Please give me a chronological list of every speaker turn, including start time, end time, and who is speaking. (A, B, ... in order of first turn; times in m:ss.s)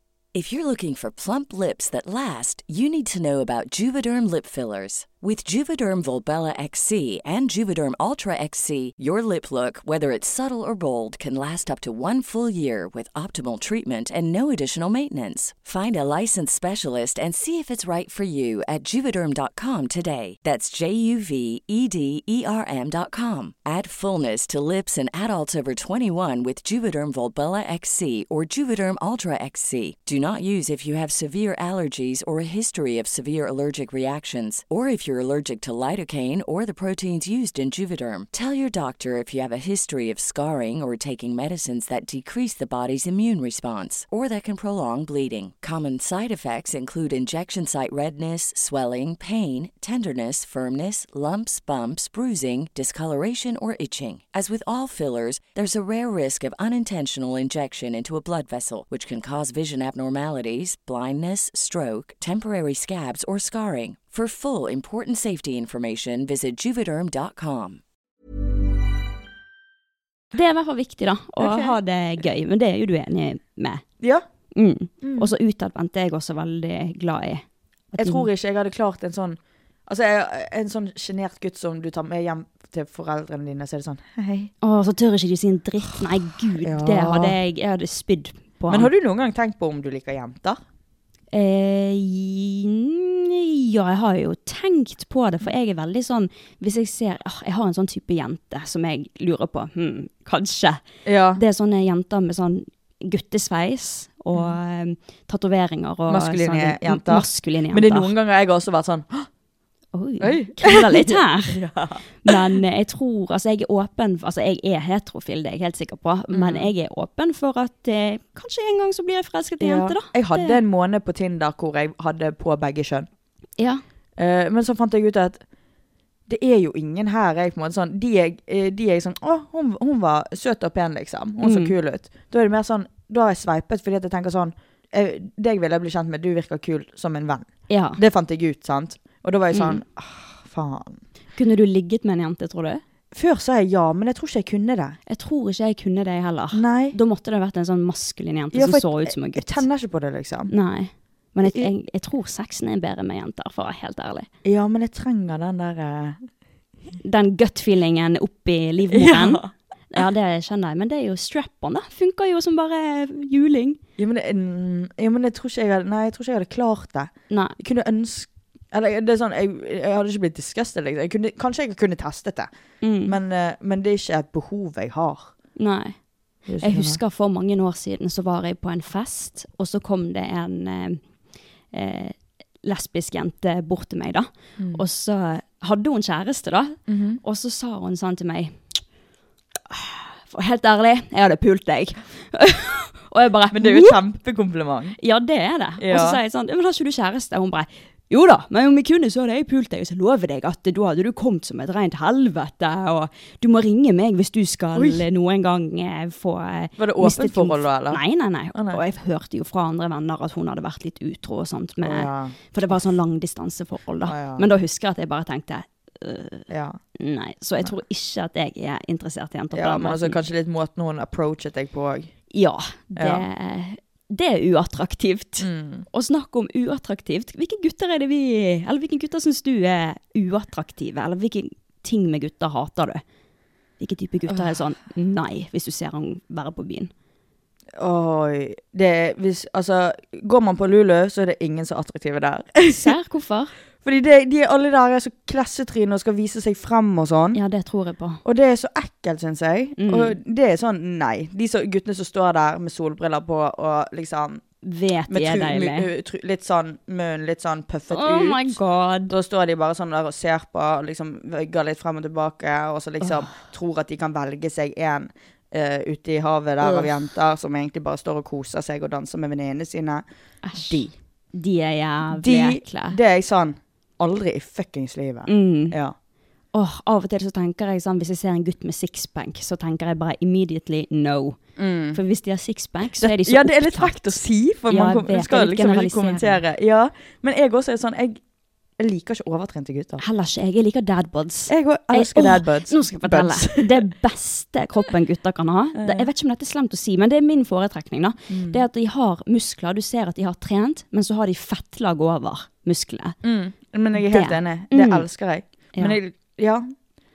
0:00.3-1:07.8 A
1:10.3-1:13.8 B
1:11.4-1:11.8 C
1:14.6-1:17.4 B
1:15.0-1:15.3 C
1:18.0-1:18.3 B
1:18.0-1:24.5 C
1:24.6-1:28.9 B
1:26.6-1:27.4 C
1:28.7-1:30.6 C
1:31.3-1:40.8 B
1:41.0-1:41.4 C
1:41.4-1:48.1 B
1:46.1-1:49.3 C
1:49.9-1:51.6 B
1:50.2-1:52.4 C
1:52.2-2:00.6 B
1:56.3-1:56.7 C
1:59.6-2:03.1 C
2:04.2-2:05.4 C
2:06.3-2:21.0 C
2:11.4-2:11.7 B
2:17.7-2:18.0 B
2:19.5-2:19.8 B
2:21.4-2:22.8 B
2:23.1-2:25.0 C
2:25.1-2:29.7 B
2:26.5-2:27.0 C
2:28.5-2:30.5 C
2:30.5-2:34.3 B
2:34.4-2:36.2 C
2:37.0-2:43.8 B
2:38.9-2:39.5 C
2:44.0-2:52.5 C
2:47.3-2:47.6 B
2:52.8-2:53.2 B
2:53.0-2:55.3 C
2:55.6-2:56.0 B
2:56.5-2:57.0 C
2:56.6-3:01.0 B
3:01.7-3:08.6 B
3:04.6-3:04.8 C
3:06.9-3:07.2 C
3:09.7-3:14.0 B
3:13.5-3:15.0 C
3:15.0-3:40.2 B
3:15.8-3:16.2 C
3:24.8-3:25.0 C
3:26.8-3:28.0 C
3:28.5-3:28.8 C
3:31.8-3:32.4 C
3:34.1-3:34.5 C
3:36.5-3:36.8 C
3:39.5-3:42.1 C
3:42.3-3:53.0 B
3:43.0-3:43.2 C
3:45.4-3:45.9 C
3:53.8-3:56.9 B
3:57.8-4:03.0 C
4:02.7-4:03.5 B
4:03.8-4:07.4 C
4:07.3-4:08.2 B
4:08.2-4:14.4 C
4:09.8-4:10.2 B
4:14.6-4:15.9 B
4:15.1-4:18.6 C
4:17.9-4:19.1 B
4:19.1-4:30.0 C
4:23.0-4:23.4 B
4:26.6-4:26.9 B
4:30.4-4:33.0 B
4:30.6-4:31.0 C
4:32.1-4:36.0 C
4:35.3-4:35.8 B
4:36.5-4:41.4 B
4:41.6-4:42.0 C
4:41.9-4:46.4 B
4:43.0-4:48.2 C
4:48.8-4:50.0 C
4:50.0-5:03.2 B
4:51.5-4:53.7 C
4:55.8-4:56.1 C
4:58.3-4:58.6 C
5:03.2-5:06.7 C
5:03.9-5:05.1 B